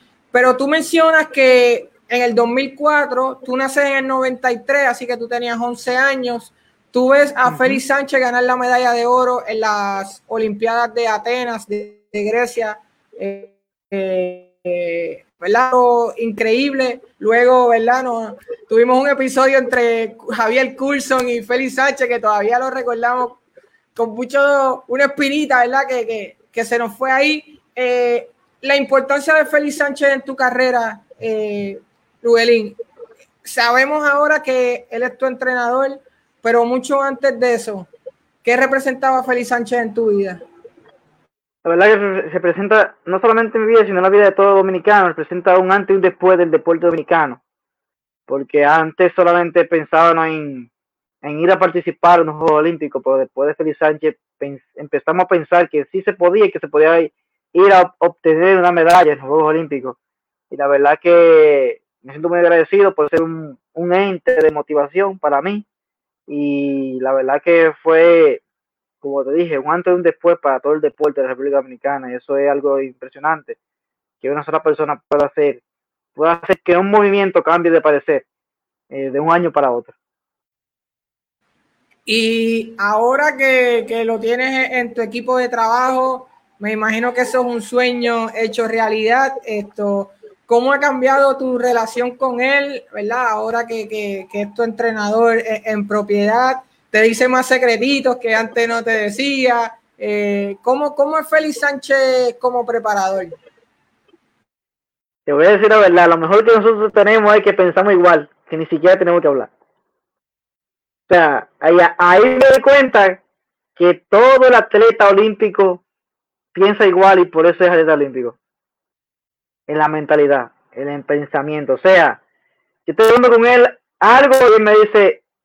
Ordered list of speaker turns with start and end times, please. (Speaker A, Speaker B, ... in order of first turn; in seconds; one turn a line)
Speaker A: 0.3-23.4
Speaker B: 7.5-7.8
Speaker A: 23.9-32.8
Speaker A: 33.4-37.9
Speaker A: 38.4-40.4
Speaker B: 41.6-47.4
Speaker B: 48.3-50.7
Speaker B: 51.2-60.0
Speaker B: 60.5-65.7
Speaker B: 66.3-68.4
Speaker B: 69.0-73.6
Speaker B: 74.2-75.6
Speaker B: 76.2-78.2
Speaker B: 78.9-79.9
Speaker A: 82.1-103.3
Speaker B: 105.2-109.5
Speaker B: 111.1-113.2
Speaker B: 113.8-115.8
Speaker B: 116.5-118.3
Speaker B: 119.7-122.2
Speaker B: 122.8-125.2